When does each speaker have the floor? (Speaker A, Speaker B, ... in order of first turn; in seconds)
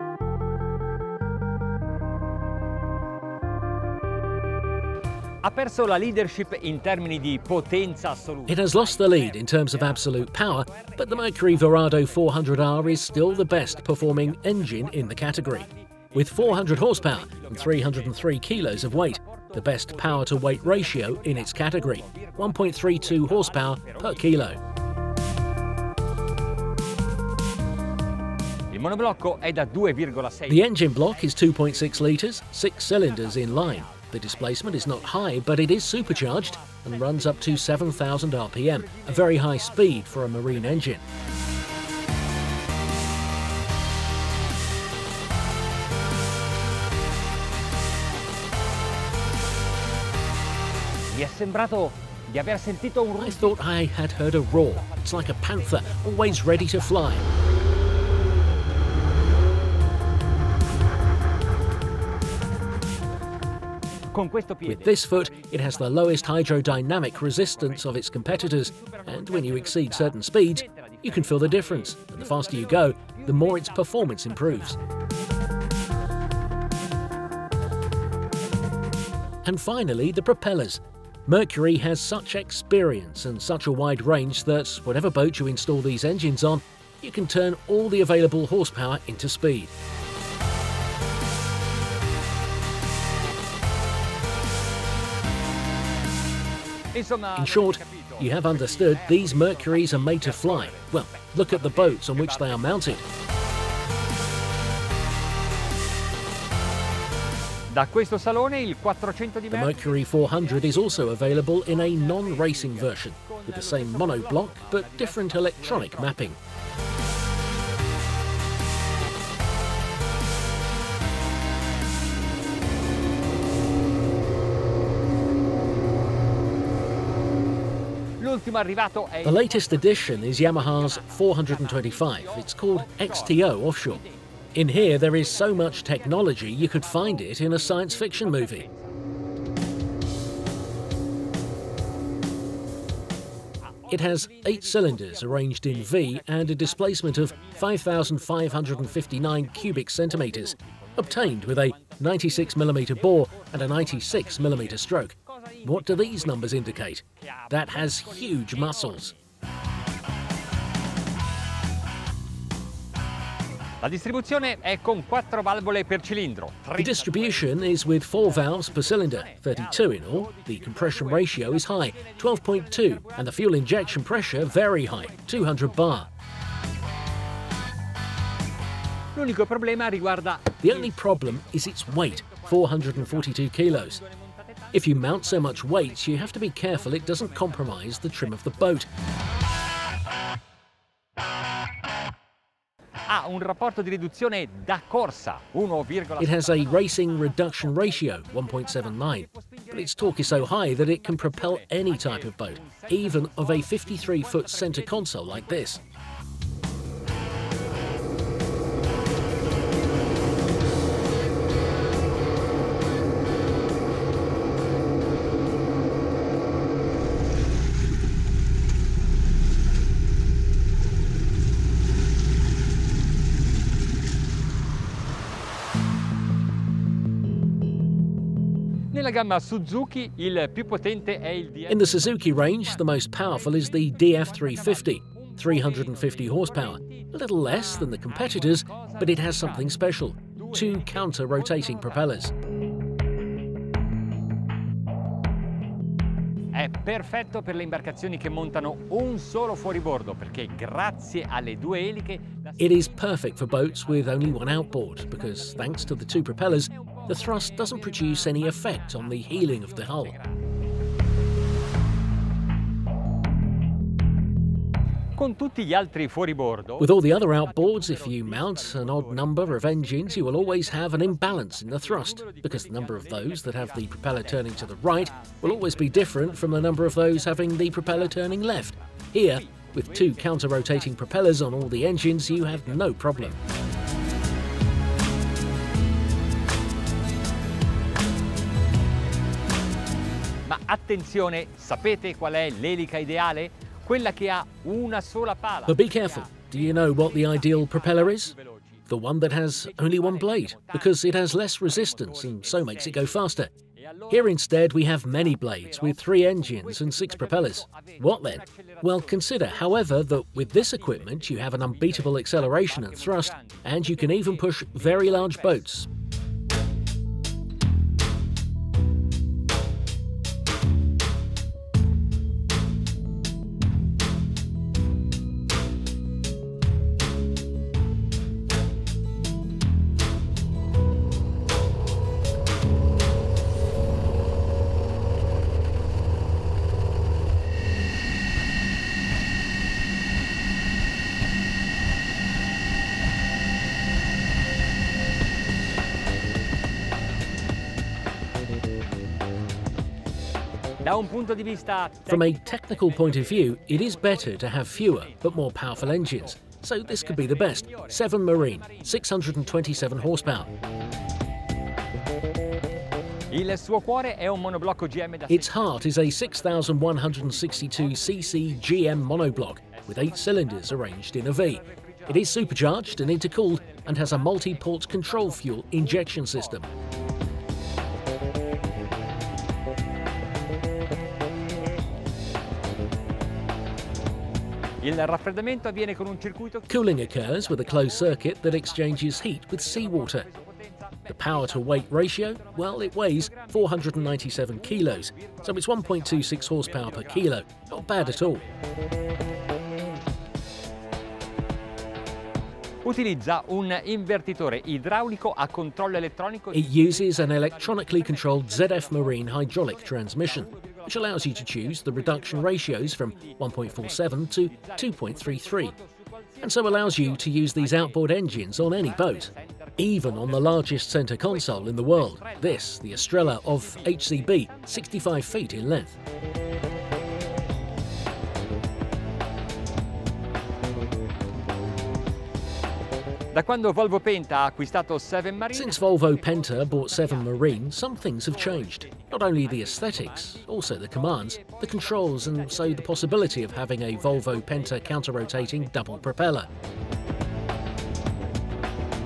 Speaker A: 5.4-9.1, 13.8-14.4, 16.1-18.2, 21.1-24.5, 28.7-30.6, 33.1-35.3, 35.9-37.7, 38.9-40.8, 51.1-53.6, 64.1-64.9, 69.0-70.1, 70.9-74.0, 96.9-102.9, 107.7-116.3, 128.2-129.8, 130.8-134.1, 136.7-137.2, 138.2-138.7, 144.7-147.7, 148.6-154.8, 155.5-156.5, 157.3-159.1, 163.8-167.5, 169.2-171.6, 179.1-180.8, 193.1-196.7, 200.5-205.0, 228.9-232.1, 234.6-236.4, 237.8-239.6, 240.4-241.8, 246.5-253.0, 257.0-260.2, 265.1-266.9, 267.7-276.2, 277.8-278.3, 279.4-280.9, 282.4-282.9, 290.4-296.4, 297.2-298.6, 299.8-300.9, 301.7-303.2, 303.8-304.4, 305.4-309.3, 310.7-315.6, 350.8-354.5, 356.9-359.8, 363.3-365.5, 369.7-370.5, 372.0-372.3, 384.8-386.7, 396.1-398.4, 402.8-406.7, 411.8-412.6, 413.2-413.9, 414.5-415.7, 417.2-420.7, 421.3-422.6, 423.8-424.1, 433.3-435.7, 442.3-442.8, 444.3-445.7
Speaker B: 8.5-24.6, 30.5-41.0, 53.2-57.3, 64.7-74.8, 79.4-89.7, 97.3-103.0, 109.5-116.4, 129.2-134.0, 134.5-138.6, 143.9-159.1, 166.8-176.1, 180.6-184.0, 184.7-188.9, 196.2-205.8, 231.7-242.3, 252.6-260.1, 266.8-283.4, 295.7-298.3, 298.9-303.5, 304.1-315.9, 352.1-360.5, 365.3-376.7, 386.7-390.3, 391.1-398.4, 406.5-415.7, 416.4-425.9, 435.5-446.5